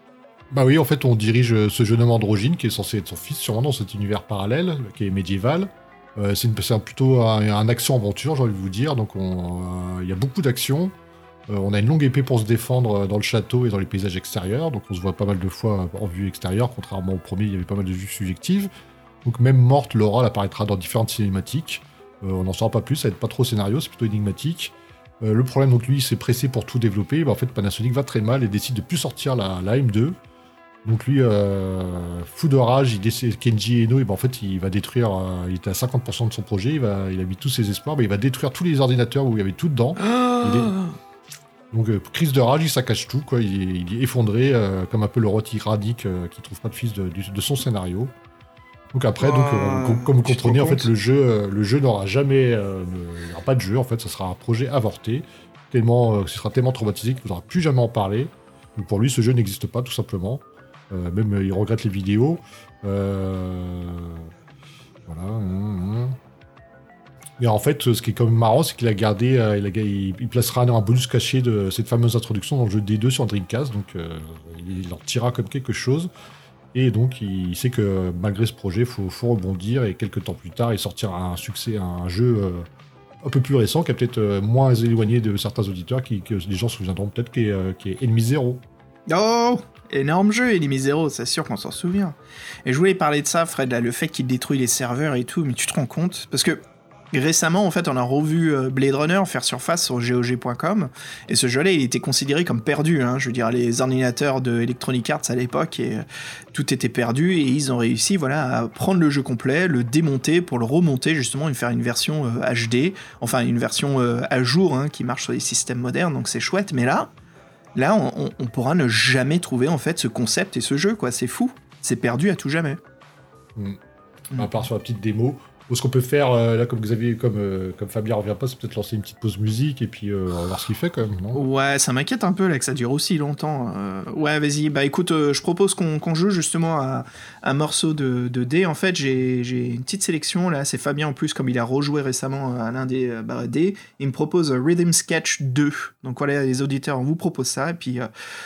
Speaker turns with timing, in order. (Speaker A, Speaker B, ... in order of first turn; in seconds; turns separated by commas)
Speaker A: 0.5-10.9, Speaker A: 11.5-18.7, Speaker A: 19.2-30.1, Speaker A: 30.8-40.8, Speaker B: 40.0-40.9, Speaker A: 41.7-48.1, Speaker A: 48.9-64.3, Speaker B: 49.2-50.9, Speaker A: 65.1-66.2, Speaker A: 67.4-76.1, Speaker A: 76.7-82.7, Speaker A: 83.2-88.6, Speaker B: 89.1-92.1, Speaker B: 92.7-96.6, Speaker B: 97.1-117.1, Speaker B: 117.8-122.8, Speaker B: 124.3-124.6, Speaker A: 124.3-131.4, Speaker B: 131.3-148.1